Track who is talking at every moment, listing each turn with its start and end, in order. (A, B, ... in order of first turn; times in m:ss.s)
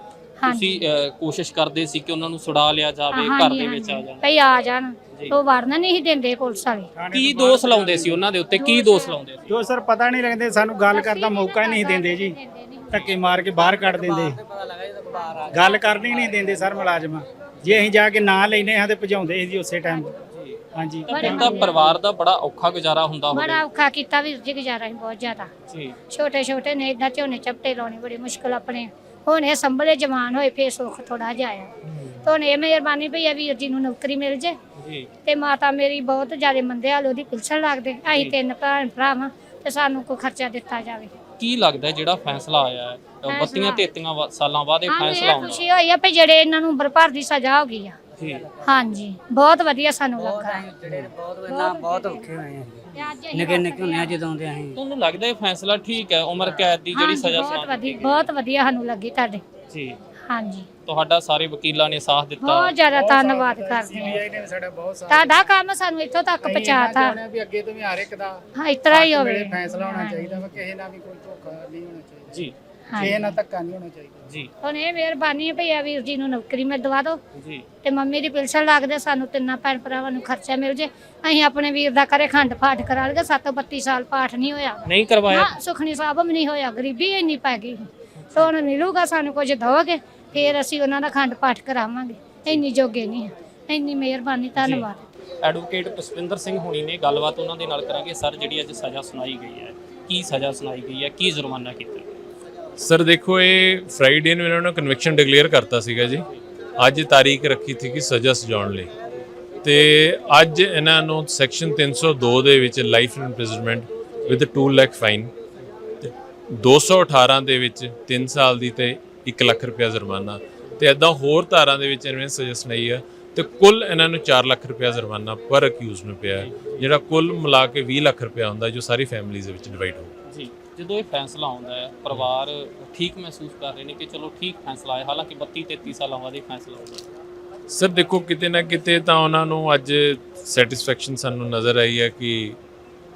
0:00.4-0:00.8 A
0:00.5-0:04.2 B
0:03.1-0:06.9 A
0:07.0-0:08.2 C
0:07.1-0:09.6 B
0:08.6-0:09.2 A
0:09.5-0:12.4 C
0:10.9-0:13.1 A
0:12.9-0:14.4 C
0:13.6-0:15.4 D
0:15.1-0:15.9 A
0:15.5-0:20.1 C
0:16.1-0:16.8 D
0:20.3-0:23.6 B
0:20.8-0:21.7 C
0:21.1-0:21.8 A
0:23.3-0:25.5 A
0:25.7-0:26.0 B
0:26.1-0:31.7 A
0:31.9-0:32.2 B
0:32.2-0:34.6 A
0:34.8-0:35.1 B
0:35.2-0:41.1 A
0:41.4-0:45.7 B
0:43.3-0:43.9 A
0:44.9-0:48.0 A
0:48.2-0:48.5 B
0:48.6-0:50.7 A
0:50.2-0:54.7 D
0:51.5-0:52.4 A
0:53.0-0:54.3 A
0:54.8-0:58.3 B
0:56.9-0:59.4 A
0:59.7-1:00.0 B
1:00.3-1:00.7 A
1:00.9-1:02.8 B
1:02.4-1:04.2 A
1:02.9-1:05.5 C
1:05.1-1:07.2 A
1:06.4-1:08.3 C
1:08.6-1:10.6 A
1:08.9-1:14.3 C
1:12.9-1:13.2 A
1:14.2-1:14.5 B
1:14.6-1:17.2 A
1:17.4-1:17.6 B
1:17.8-1:27.8 A
1:24.9-1:25.5 B
1:28.2-1:28.5 B
1:28.3-1:35.0 A
1:34.6-1:34.9 B
1:35.4-1:42.1 B
1:42.8-1:46.3 E
1:46.8-1:48.9 E
1:49.6-1:55.3 E
1:56.0-2:10.1 E
2:06.4-2:06.9 B
2:10.3-2:17.1 B
2:17.7-2:22.6 E